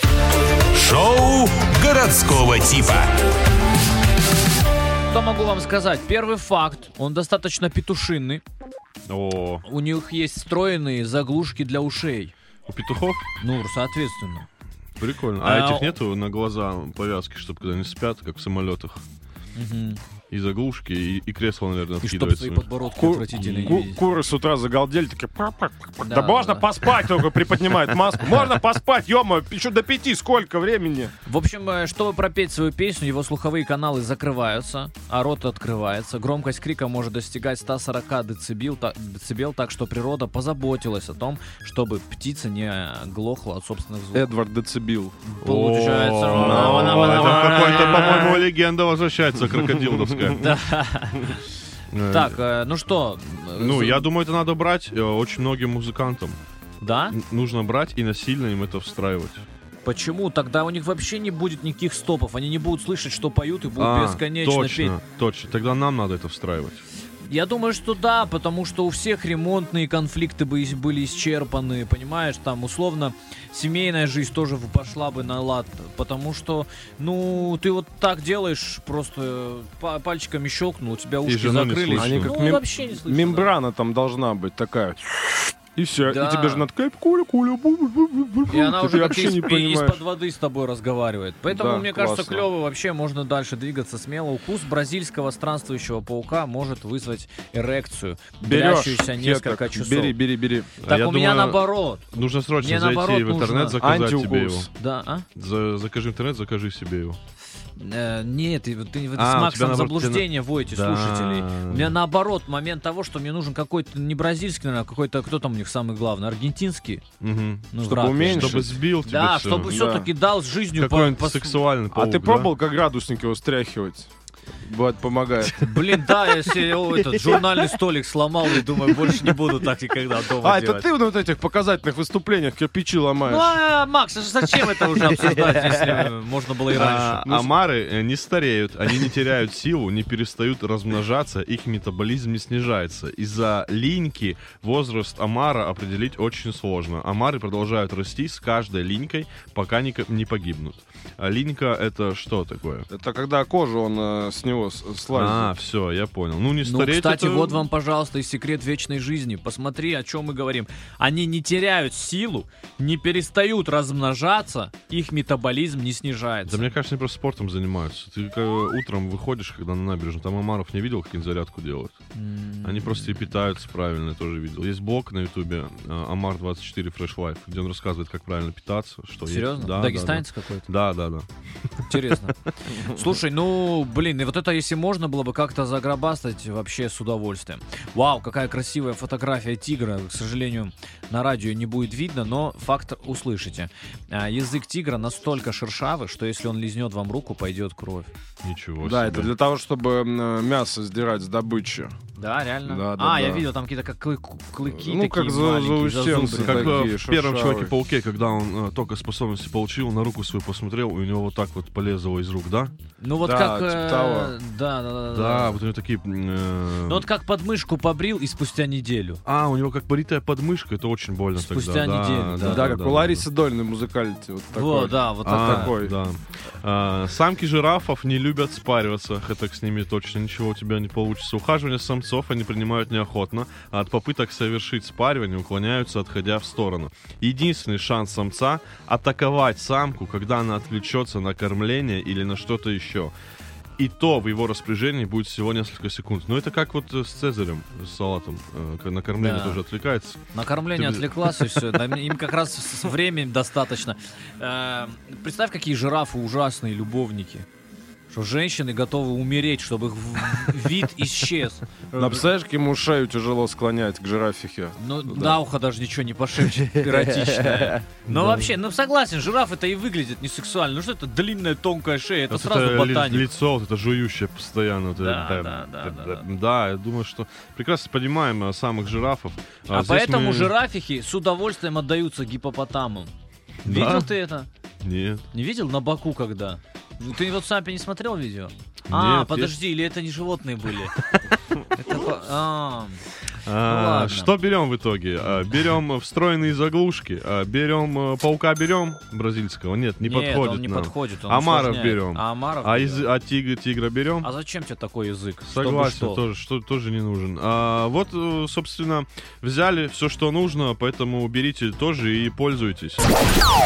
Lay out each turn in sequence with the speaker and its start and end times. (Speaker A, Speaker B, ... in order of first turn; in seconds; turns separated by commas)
Speaker A: 0.7-3.1, Speaker B: 5.1-8.4, Speaker C: 9.1-9.6, Speaker B: 9.6-12.3, Speaker C: 12.7-13.3, Speaker B: 13.4-14.5, Speaker C: 15.0-19.0, Speaker B: 15.4-15.9, Speaker B: 19.5-20.0, Speaker C: 20.3-22.7, Speaker B: 22.0-24.0, Speaker D: 23.0-31.1, Speaker C: 23.3-23.9, Speaker B: 26.0-26.6, Speaker B: 31.2-44.3, Speaker D: 44.1-45.1, Speaker B: 45.2-48.4, Speaker C: 45.4-50.5, Speaker D: 46.3-48.4, Speaker B: 50.4-51.4, Speaker C: 51.9-52.4, Speaker B: 52.1-54.0, Speaker C: 53.5-56.4, Speaker B: 56.8-57.1, Speaker C: 57.1-59.4, Speaker B: 59.8-65.0, Speaker C: 63.8-66.8, Speaker B: 67.2-83.5, Speaker C: 81.2-82.4, Speaker D: 82.0-90.0, Speaker B: 86.0-86.7, Speaker B: 88.5-100.2, Speaker D: 91.5-92.5, Speaker D: 98.4-100.7, Speaker B: 100.8-102.0, Speaker C: 100.8-104.7, Speaker B: 102.6-103.8, Speaker D: 103.8-104.7, Speaker B: 104.7-105.3, Speaker C: 105.3-107.2, Speaker B: 107.8-117.0, Speaker C: 109.2-112.0, Speaker C: 117.2-119.8, Speaker B: 117.7-121.6, Speaker D: 117.8-118.7, Speaker D: 119.6-120.1, Speaker C: 120.8-122.5, Speaker D: 121.9-124.1, Speaker D: 124.6-126.1, Speaker B: 125.5-130.9, Speaker D: 127.1-127.4, Speaker D: 130.4-133.6, Speaker B: 133.2-137.5, Speaker C: 136.7-152.9, Speaker D: 152.9-155.5, Speaker C: 155.1-157.6, Speaker B: 156.6-166.6, Speaker C: 166.5-172.0, Speaker B: 172.1-173.2, Speaker C: 172.6-182.2, Speaker B: 179.2-180.7, Speaker B: 181.9-198.1, Speaker C: 198.4-199.3, Speaker D: 198.8-201.9, Speaker B: 202.2-206.9, Speaker D: 202.6-203.4, Speaker D: 204.7-207.7, Speaker C: 206.3-212.7, Speaker B: 213.0-215.6, Speaker D: 213.2-214.3, Speaker C: 215.1-217.1, Speaker B: 216.8-219.2, Speaker C: 219.2-223.2, Speaker B: 221.3-222.7, Speaker D: 222.4-225.9, Speaker B: 224.5-225.8, Speaker C: 225.2-243.1, Speaker C: 243.8-250.2, Speaker B: 249.2-249.6, Speaker B: 250.3-257.4, Speaker C: 250.7-251.6, Speaker B: 258.1-262.2, Speaker D: 261.9-265.4, Speaker B: 264.8-273.3, Speaker D: 266.8-267.8, Speaker C: 268.1-268.5, Speaker C: 272.3-280.5, Speaker B: 275.0-276.2, Speaker B: 279.7-283.1, Speaker C: 283.6-284.1, Speaker B: 283.6-284.5, Speaker C: 284.8-285.2, Speaker B: 285.3-290.9, Speaker C: 288.9-289.5, Speaker B: 291.7-293.0, Speaker C: 293.4-304.3, Speaker B: 293.6-294.3, Speaker B: 300.0-303.1, Speaker B: 304.2-306.2, Speaker C: 305.4-313.0